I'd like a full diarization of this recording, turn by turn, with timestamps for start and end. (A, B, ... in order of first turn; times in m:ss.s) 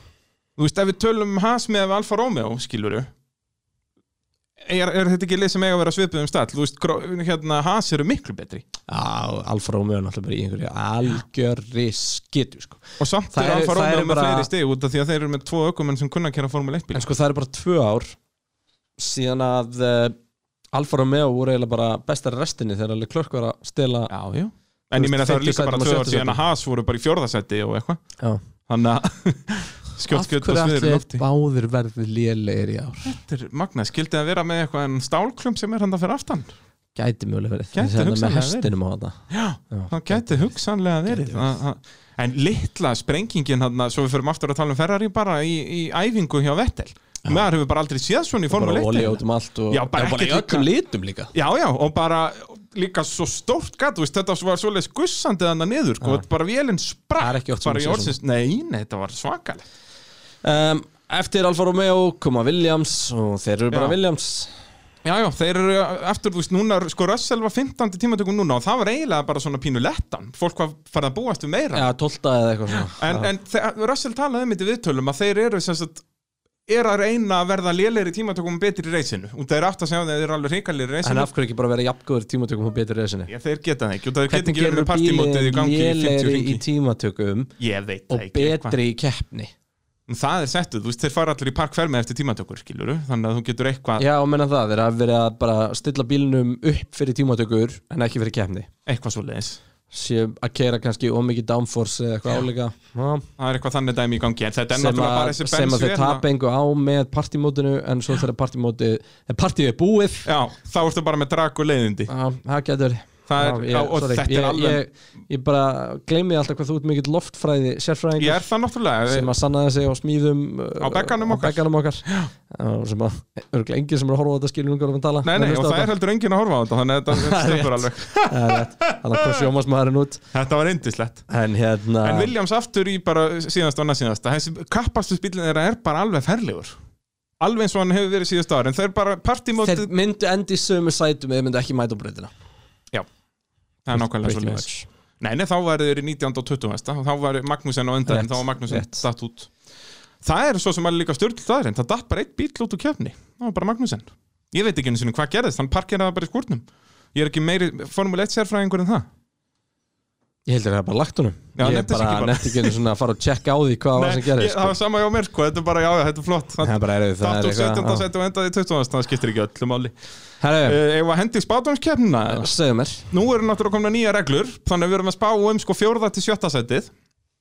0:00.6-0:03.1 A
0:04.6-0:08.6 A
0:08.9-0:14.5 B
0:13.0-0:17.1 A
0:16.9-0:18.2 B
0:19.0-0:20.2 B
0:20.7-0:24.1 B
0:24.1-0:28.0 A
0:24.9-0:26.4 B
0:28.7-0:31.2 A
0:30.1-0:33.2 B
0:33.0-0:36.5 A
0:36.9-0:39.2 B
0:37.7-0:38.7 A
0:39.3-0:50.7 A
0:39.7-0:40.5 B
0:41.0-0:41.4 B
0:48.5-0:51.3 B
0:51.3-0:59.6 A
0:57.2-0:58.2 B
1:00.4-1:04.5 B
1:05.0-1:11.8 A
1:11.7-1:13.3 B
1:12.8-1:16.0 A
1:16.7-1:21.3 A
1:21.0-1:23.3 B
1:23.3-1:26.6 A
1:24.3-1:27.5 B
1:27.6-1:28.8 A
1:28.1-1:29.5 B
1:30.1-1:34.0 A
1:34.0-1:38.7 B
1:38.8-1:39.6 A
1:39.9-1:43.2 B
1:43.4-1:46.2 A
1:44.7-1:50.3 B
1:50.2-1:52.1 A
1:52.1-1:58.5 B
1:53.3-1:54.8 A
1:58.2-1:59.3 A
1:59.1-2:05.9 B
2:00.8-2:02.3 A
2:05.2-2:09.4 A
2:07.1-2:10.2 B
2:10.3-2:11.3 A
2:11.3-2:12.3 B
2:12.0-2:16.8 A
2:17.4-2:19.9 A
2:19.6-2:22.3 B
2:23.8-2:24.7 A
2:23.9-2:24.9 B
2:25.2-2:29.5 A
2:28.1-2:29.0 B
2:30.2-2:39.1 A
2:40.5-2:44.7 B
2:41.6-2:42.8 A
2:43.9-2:49.9 A
2:46.6-2:48.0 B
2:50.4-2:50.8 B
2:50.6-2:52.5 A
2:52.3-2:53.1 B
2:53.1-2:56.9 A